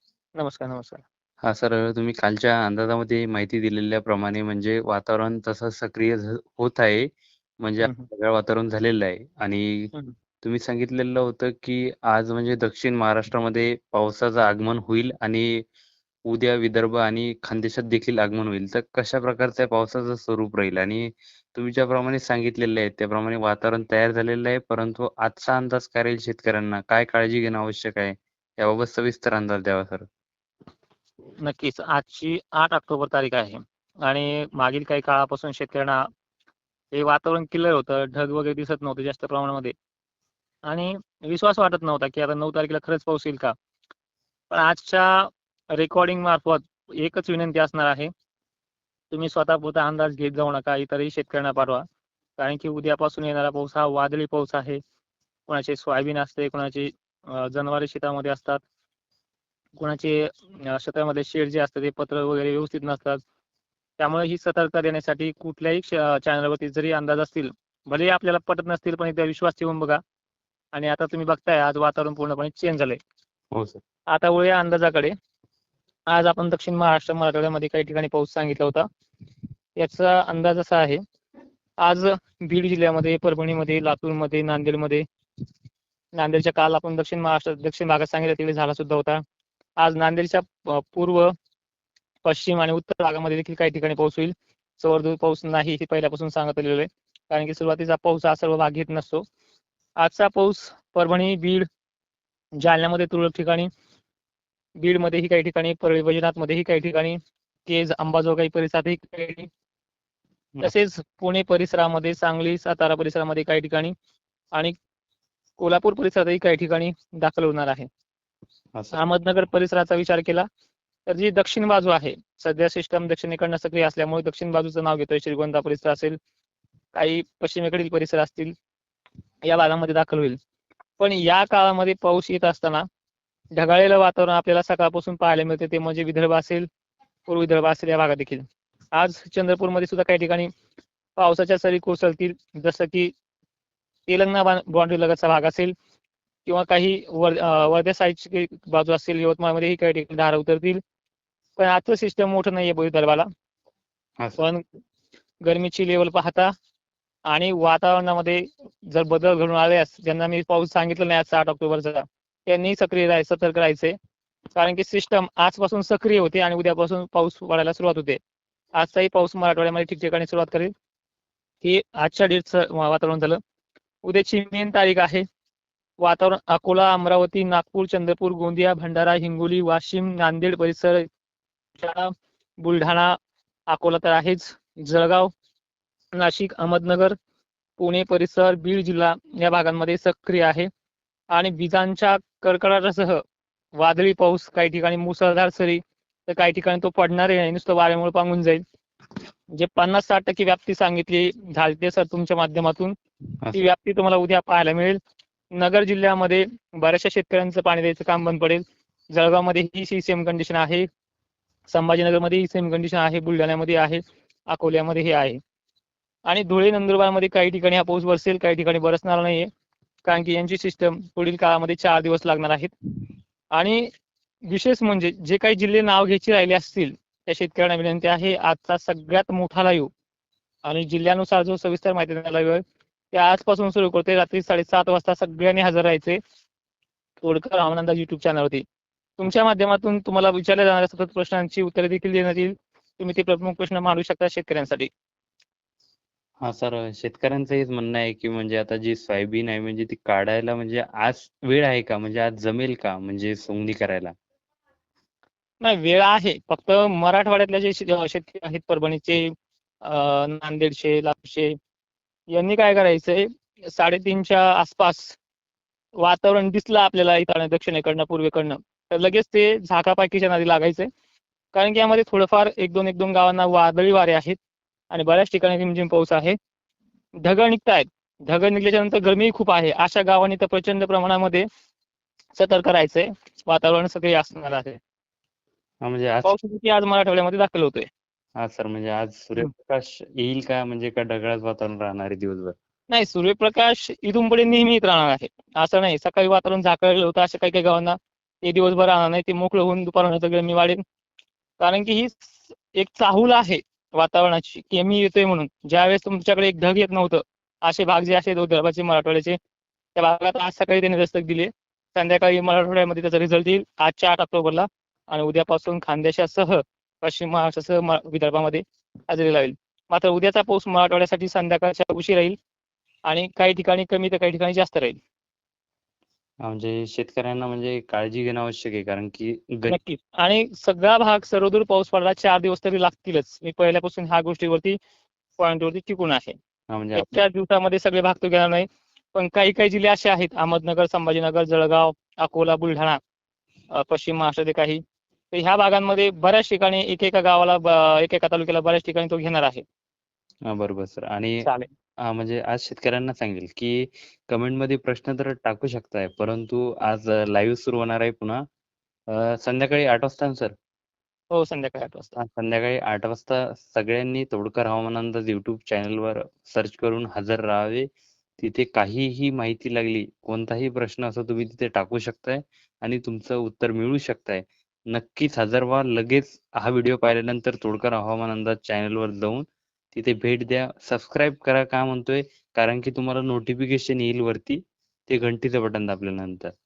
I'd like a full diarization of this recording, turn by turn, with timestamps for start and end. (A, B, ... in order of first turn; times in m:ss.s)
0:00.4-0:01.0 A
0:01.4-0:07.1 B
0:07.6-0:15.6 B
0:16.3-0:30.0 B
0:31.4-0:36.0 A
0:36.9-0:39.7 A
0:40.7-0:43.5 A
0:44.5-0:48.1 A
0:49.1-0:51.8 A
0:52.4-0:54.8 A
0:55.5-0:58.6 A
0:59.8-1:03.2 A
1:04.0-1:10.0 A
1:10.7-1:13.0 A
1:13.5-1:13.8 B
1:14.1-1:15.1 A
1:16.1-1:18.8 A
1:19.8-1:21.0 A
1:21.8-1:25.0 A
1:26.2-1:29.2 A
1:29.8-1:31.3 A
1:32.2-1:39.2 A
1:40.0-1:41.6 A
1:42.6-1:43.7 A
1:44.8-1:47.2 A
1:47.7-1:49.5 A
1:50.6-1:53.9 A
1:55.6-1:57.9 A
1:58.9-2:00.4 A
2:01.1-2:06.2 A
2:06.9-2:08.5 A
2:09.5-2:10.4 A
2:11.0-2:12.8 A
2:13.6-2:16.7 A
2:17.3-2:20.5 A
2:21.2-2:23.1 A
2:24.1-2:25.7 A
2:26.4-2:30.8 A
2:31.6-2:33.3 A
2:34.4-2:34.6 A
2:35.4-2:36.5 A
2:37.3-2:43.9 A
2:44.6-2:48.2 A
2:48.8-2:50.7 A
2:51.6-2:53.4 A
2:54.0-2:55.2 A
2:56.0-3:01.0 A
3:01.8-3:02.1 A
3:02.6-3:03.1 A
3:03.7-3:05.3 A
3:06.1-3:07.1 A
3:07.8-3:10.7 A
3:11.3-3:13.2 A
3:13.8-3:18.6 A
3:19.6-3:22.9 A
3:23.5-3:25.0 A
3:25.6-3:28.6 A
3:29.1-3:30.8 A
3:31.7-3:35.4 A
3:36.3-3:39.5 A
3:40.0-3:42.7 A
3:43.5-3:43.9 A
3:44.5-3:49.9 A
3:50.6-3:56.2 A
3:57.2-3:58.6 A
3:59.2-4:04.9 A
4:06.4-4:14.1 B
4:15.6-4:19.3 A
4:19.8-4:21.5 A
4:22.3-4:25.2 A
4:26.0-4:30.8 A
4:31.5-4:34.4 A
4:34.9-4:36.4 A
4:37.2-4:41.4 A
4:42.4-4:44.8 A
4:45.8-4:46.3 B
4:46.2-4:47.8 A
4:48.4-4:52.5 B
4:52.9-5:00.8 A
5:01.6-5:09.4 A
5:10.0-5:22.3 A
5:23.1-5:25.0 A
5:26.4-5:29.8 B
5:29.7-5:34.8 A
5:35.4-5:36.4 A
5:36.7-5:37.1 B
5:36.9-5:43.0 A
5:43.8-5:44.8 A
5:45.3-5:49.6 A
5:50.5-5:51.5 B
5:51.4-5:51.7 A
5:52.0-5:58.4 B
5:59.1-6:00.5 B
6:01.3-6:02.1 A
6:02.2-6:07.9 B
6:08.4-6:26.5 B